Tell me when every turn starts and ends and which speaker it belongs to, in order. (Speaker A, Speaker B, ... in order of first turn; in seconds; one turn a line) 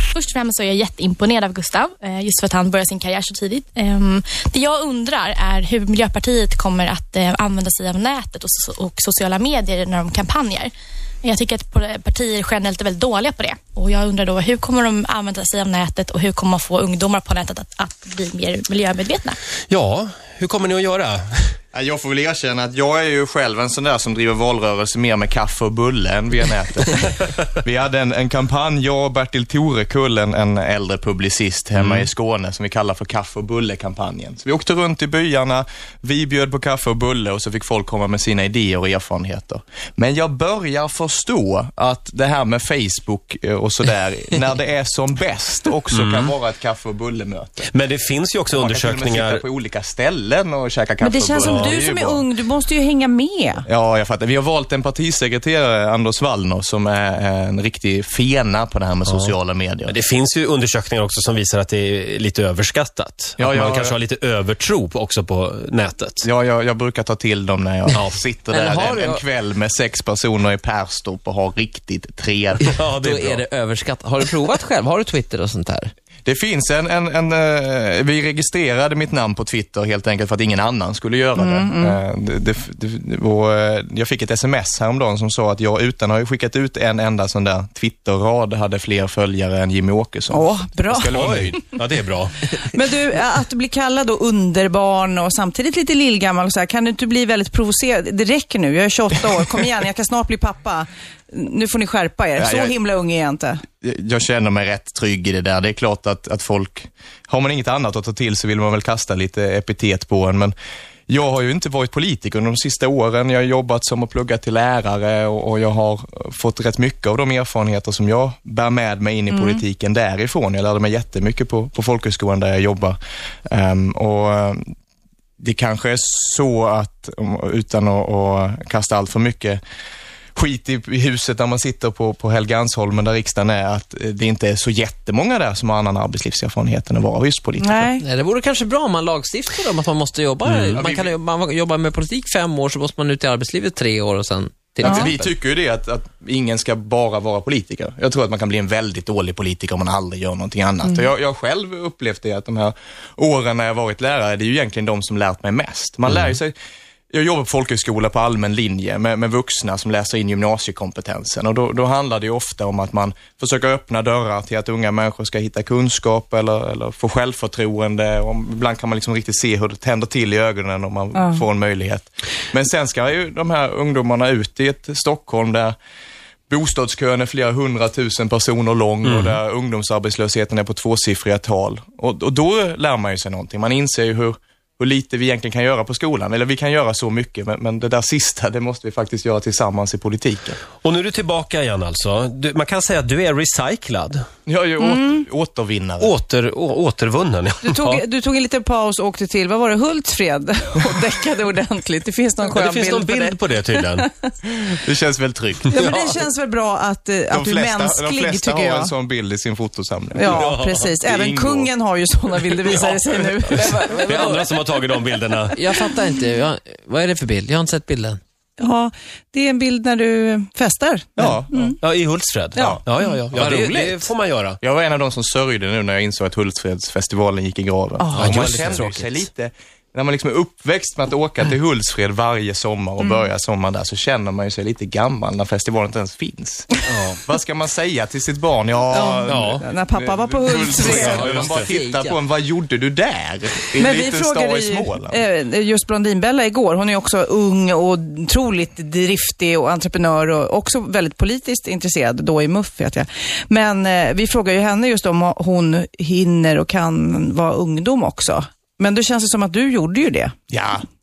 Speaker A: 0.1-10.7
Speaker A: 11.2-19.4
Speaker B: 19.7-21.6
Speaker C: 21.7-47.7
Speaker B: 31.8-32.1
Speaker B: 45.9-46.3
Speaker B: 47.7-49.4
Speaker C: 48.5-52.2
Speaker D: 51.0-53.7
Speaker B: 51.4-51.8
Speaker C: 53.7-60.0
Speaker B: 59.9-66.3
Speaker C: 63.4-64.0
Speaker C: 66.2-72.7
Speaker E: 68.5-69.2
Speaker B: 72.7-73.4
Speaker E: 73.0-75.9
Speaker C: 76.2-91.6
Speaker D: 81.3-82.0
Speaker D: 90.3-91.2
Speaker B: 91.1-92.5
Speaker D: 92.5-103.6
Speaker C: 102.4-102.8
Speaker C: 103.8-110.5
Speaker C: 111.1-124.7
Speaker D: 119.3-119.6
Speaker C: 125.4-129.6
Speaker C: 130.4-137.9
Speaker D: 137.6-138.0
Speaker E: 138.0-145.3
Speaker C: 140.5-141.1
Speaker C: 144.8-156.6
Speaker D: 144.8-145.1
Speaker C: 157.1-175.8
Speaker C: 176.5-190.6
Speaker B: 179.1-179.4
Speaker B: 190.8-194.2
Speaker C: 194.4-196.1
Speaker D: 194.8-195.2
Speaker B: 196.0-198.0
Speaker D: 197.6-204.1
Speaker B: 202.5-204.1
Speaker C: 204.6-205.8
Speaker D: 205.7-208.9
Speaker B: 205.8-206.1
Speaker C: 207.3-211.7
Speaker D: 210.1-214.4
Speaker B: 210.3-210.9
Speaker B: 213.6-215.6
Speaker E: 213.9-214.5
Speaker E: 215.5-218.2
Speaker D: 218.6-221.8
Speaker C: 221.2-221.7
Speaker B: 221.8-224.6
Speaker D: 222.6-223.1
Speaker E: 223.3-224.1
Speaker C: 224.6-245.2
Speaker D: 228.0-228.3
Speaker E: 228.1-229.2
Speaker B: 228.2-228.9
Speaker D: 238.9-241.2
Speaker B: 239.2-239.7
Speaker E: 240.9-242.2
Speaker B: 240.9-241.7
Speaker D: 243.8-260.4
Speaker C: 260.5-260.8